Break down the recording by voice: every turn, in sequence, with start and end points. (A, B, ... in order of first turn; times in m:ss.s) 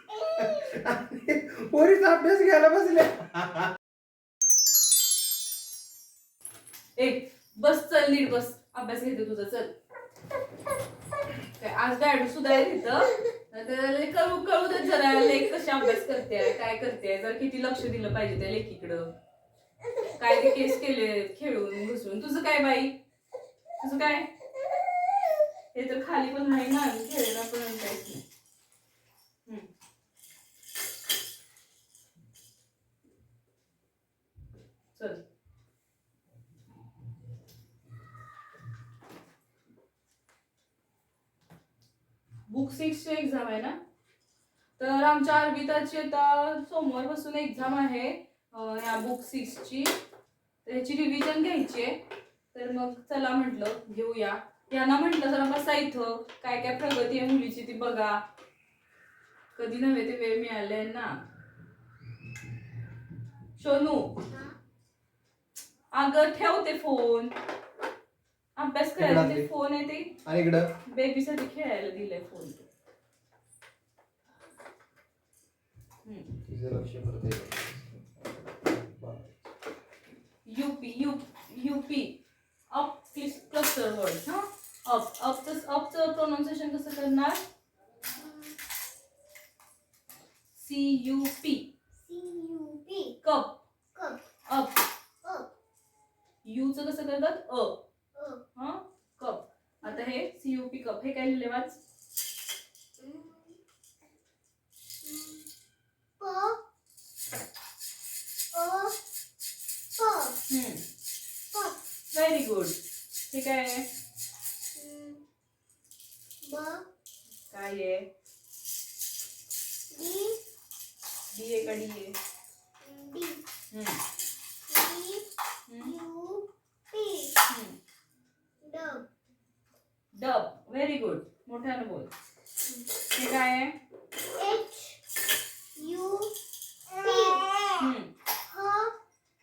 0:00.1-0:00.7 A
0:00.4-0:03.7 B
0:07.0-0:09.7 C
0:11.6-0:19.1 C
0:20.2-0:23.0 C
0:23.8-0:24.3 C
0:25.7-0:28.2 C
0:42.5-0:43.8 C
0:44.8-0:49.9 C
0:50.6-0:52.0 C
0:52.5-0:58.2 C
0:59.6-1:01.2 C
1:03.6-1:04.1 C
1:04.3-1:04.5 A
1:05.9-1:07.3 C
1:08.6-1:10.2 C
1:09.0-1:09.5 B
1:10.2-1:10.7 B
1:10.9-1:12.6 C
1:16.4-1:19.4 B
1:20.4-1:22.2 C
1:22.7-1:27.4 C
1:28.1-1:28.6 A
1:30.6-1:31.7 C
1:32.0-1:33.2 A
1:33.2-1:33.6 C
1:33.9-1:34.2 A
1:34.5-1:34.8 C
1:36.4-1:37.8 C
1:38.1-1:38.4 A
1:38.6-1:41.8 C
1:43.0-1:43.6 A
1:45.0-1:45.5 A
1:46.2-1:46.6 A
1:48.5-1:49.0 A
1:50.0-1:50.4 A
1:50.5-1:50.8 C
1:51.5-1:51.8 A
1:52.1-1:52.8 C
1:53.3-1:53.8 C
1:54.7-1:55.2 A
1:56.4-1:56.8 A
1:57.5-1:58.0 C
1:59.9-2:00.4 A
2:01.3-2:02.1 C
2:02.8-2:03.4 A
2:03.7-2:04.0 C
2:04.7-2:05.2 A
2:05.7-2:05.9 C
2:05.8-2:07.4 A
2:07.5-2:07.7 C
2:08.6-2:09.0 A
2:10.1-2:12.1 C
2:13.2-2:13.7 C
2:14.3-2:15.0 A
2:15.8-2:16.3 A
2:16.9-2:17.8 A
2:17.8-2:18.1 C
2:18.5-2:18.9 A